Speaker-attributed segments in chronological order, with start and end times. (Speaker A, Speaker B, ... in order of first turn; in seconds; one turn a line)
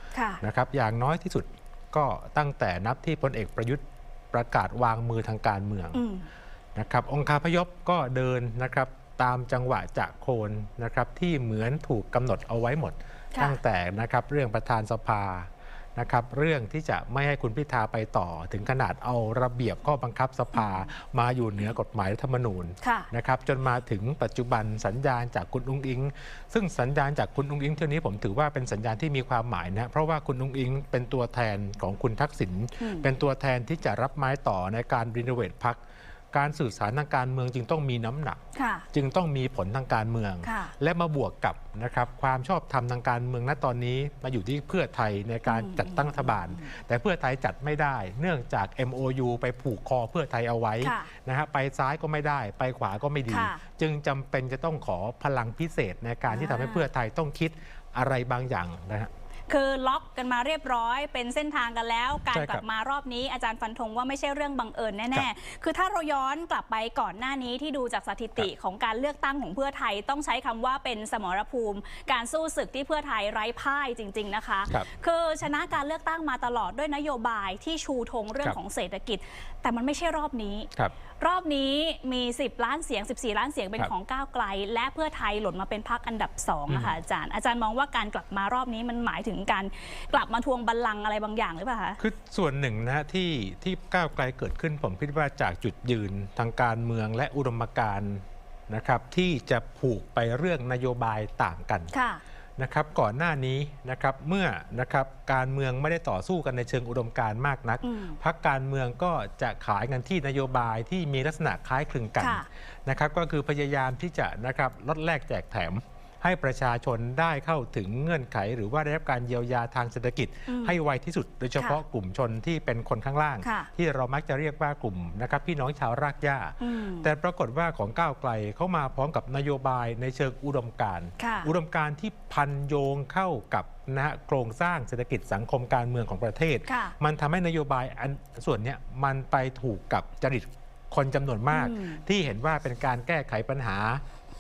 Speaker A: 0.1-0.4
Speaker B: 0.4-6.0
Speaker A: 6.0-6.3
Speaker B: 6.8-35.8
Speaker A: 20.5-20.9
Speaker A: 22.8-23.1
Speaker A: 32.8-33.1
Speaker B: 36.3-38.4
Speaker A: 38.5-38.9
Speaker B: 38.9-59.1
Speaker A: 40.4-40.7
Speaker A: 45.5-46.7
Speaker A: 50.8-51.1
Speaker A: 53.3-53.6
Speaker A: 56.3-56.9
Speaker A: 59.5-92.0
Speaker B: 62.3-62.6
Speaker B: 86.7-87.0
Speaker B: 92.0-101.9
Speaker A: 101.9-102.2
Speaker B: 102.6-144.0
Speaker A: 107.8-108.2
Speaker A: 112.2-112.5
Speaker A: 120.5-120.8
Speaker A: 123.4-123.7
Speaker A: 126.6-127.1
Speaker A: 131.2-131.5
Speaker A: 136.7-136.9
Speaker A: 141.5-142.0